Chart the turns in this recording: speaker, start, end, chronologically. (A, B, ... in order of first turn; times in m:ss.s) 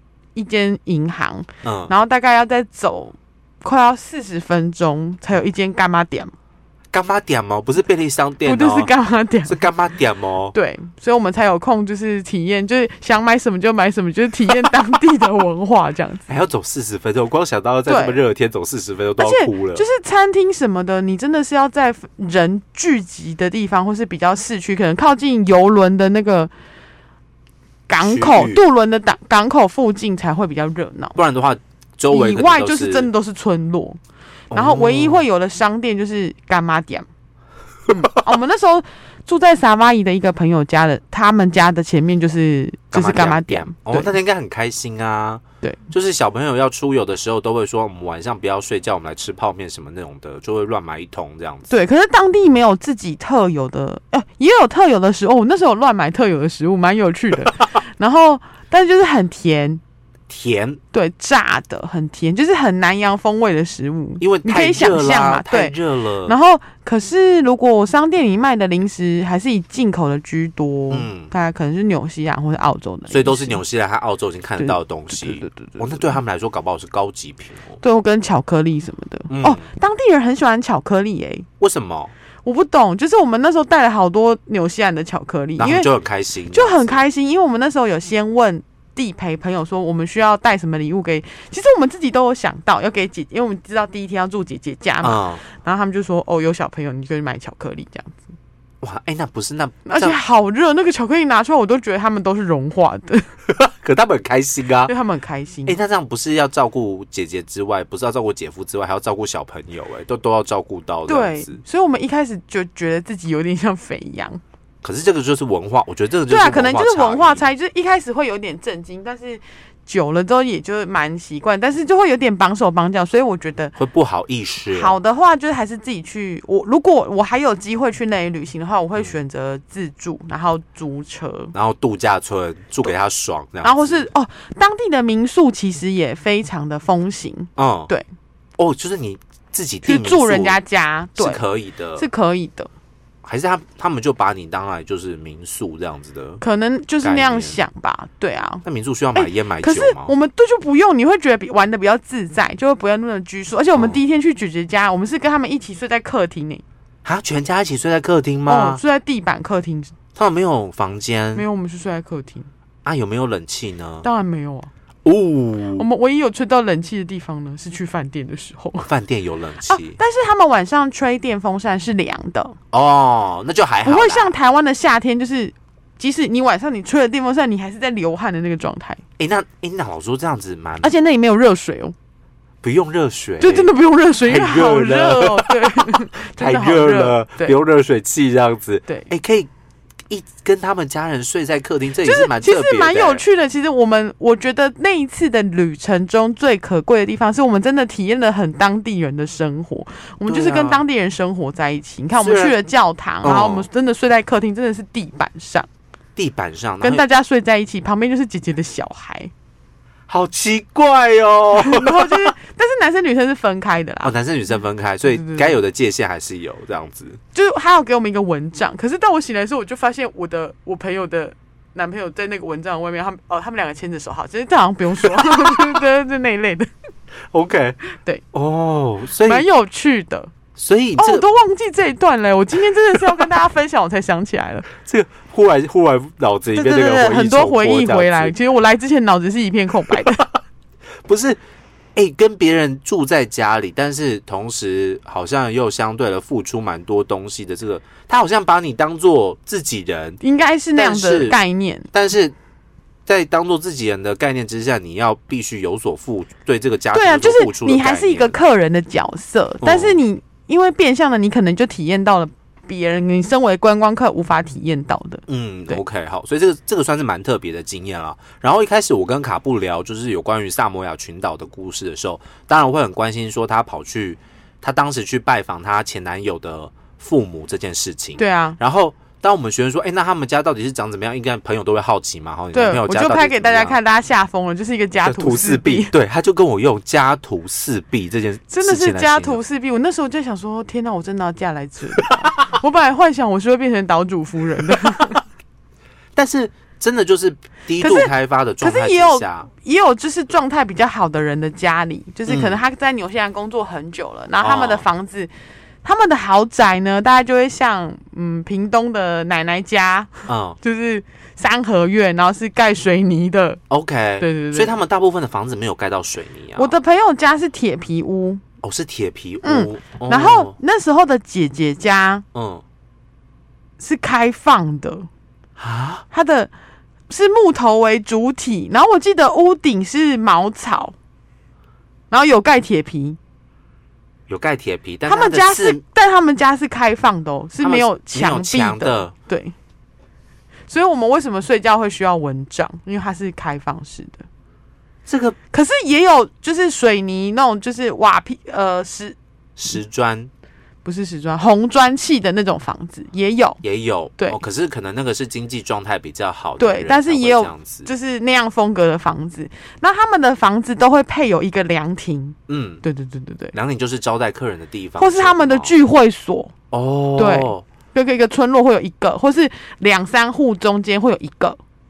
0:00.3-0:06.3 A
0:01.6-0:01.9 B
0:06.9-0:08.9 B
0:08.4-0:09.6 A
0:09.5-0:10.6 B
0:10.5-0:16.2 A
0:16.3-0:19.8 B
0:17.9-0:18.2 A
0:19.2-0:26.5 A
0:27.9-0:31.2 A
0:28.0-0:28.6 B
0:31.1-0:33.1 B
0:32.1-0:34.0 A
0:34.5-0:35.2 B
0:34.5-0:37.1 A
0:37.9-0:44.1 A
0:42.9-0:51.7 B
0:51.7-0:59.8 A
1:00.3-1:00.8 B
1:00.9-1:13.6 A
1:04.2-1:06.3 B
1:10.9-1:11.3 B
1:13.1-1:17.8 B
1:14.6-1:16.2 A
1:17.8-1:21.5 A
1:19.3-1:19.6 B
1:21.6-1:22.1 B
1:22.4-1:25.9 A
1:25.6-1:27.0 B
1:26.5-1:38.2 A
1:35.0-1:35.4 B
1:38.8-1:40.2 B
1:39.8-1:43.2 A
1:43.5-1:44.9 B
1:44.9-1:45.8 A
1:45.6-1:51.6 B
1:51.1-1:54.4 A
1:54.8-1:57.4 B
1:56.3-2:03.8 A
2:03.8-2:05.0 B
2:04.7-2:11.5 A
2:11.5-2:14.1 B
2:13.6-2:18.0 A
2:17.6-2:17.9 B
2:18.6-2:20.6 B
2:19.8-2:21.4 A
2:21.2-2:22.0 B
2:22.0-2:22.7 A
2:23.2-2:26.4 B
2:26.4-2:28.6 A
2:27.0-2:27.6 B
2:28.6-2:30.1 B
2:29.1-2:36.6 A
2:33.7-2:34.0 B
2:37.0-2:38.8 B
2:38.4-2:39.9 A
2:40.1-2:41.4 B
2:41.3-2:42.5 A
2:42.8-2:44.0 B
2:44.0-2:44.7 A
2:45.0-2:45.8 B
2:45.8-2:48.9 A
2:48.8-2:50.0 B
2:49.7-2:52.6 A
2:52.7-2:54.3 B
2:53.8-2:59.0 A
2:59.2-3:00.9 B
3:00.8-3:01.9 A
3:02.6-3:09.5 B
3:03.4-3:07.6 A
3:10.1-3:13.2 B
3:12.0-3:25.7 A
3:20.2-3:20.8 B
3:22.2-3:22.6 B
3:23.2-3:23.7 B
3:26.2-3:27.0 B
3:26.8-3:29.3 A
3:30.1-3:32.3 B
3:31.6-3:34.1 A
3:34.0-3:37.2 B
3:35.1-3:35.6 A
3:37.3-3:46.7 A
3:47.3-3:47.8 B
3:47.9-3:48.2 A
3:48.3-3:49.4 B
3:49.2-3:50.3 A
3:50.6-3:51.2 B
3:51.0-3:54.6 A
3:54.8-3:58.3 B
3:56.5-4:00.2 A
4:01.0-4:01.4 B
4:02.0-4:10.2 B
4:10.2-4:11.9 A
4:10.8-4:11.4 B
4:11.9-4:12.3 B
4:13.1-4:18.4 B
4:16.9-4:25.8 A
4:19.6-4:20.0 B
4:25.3-4:43.8 B
4:38.2-4:38.6 A
4:42.5-4:45.9 A
4:45.0-4:49.4 B
4:48.5-4:55.2 A
4:56.2-4:59.5 B
4:57.8-5:05.3 A
5:02.3-5:02.6 B
5:04.4-5:04.8 B
5:05.8-5:13.6 A
5:10.3-5:10.6 B
5:13.7-5:16.8 B
5:14.2-5:14.7 A
5:16.6-5:18.4 A
5:18.6-5:20.5 B
5:19.4-5:22.2 A
5:22.3-5:22.6 B
5:23.8-5:25.1 A
5:25.6-5:26.0 B
5:26.1-5:26.5 A
5:27.1-5:30.9 A
5:32.1-5:33.2 A
5:34.3-5:35.8 B
5:35.0-5:39.5 A
5:37.6-5:39.1 B
5:40.7-5:44.2 A
5:45.1-5:45.4 B
5:45.5-5:49.2 A
5:49.6-5:50.3 B
5:50.8-5:53.6 A
5:53.6-5:57.9 B
5:56.6-6:03.5 A
6:02.5-6:02.8 B
6:03.5-6:05.7 B
6:05.0-6:06.5 A
6:06.7-6:07.6 B
6:07.2-6:11.6 A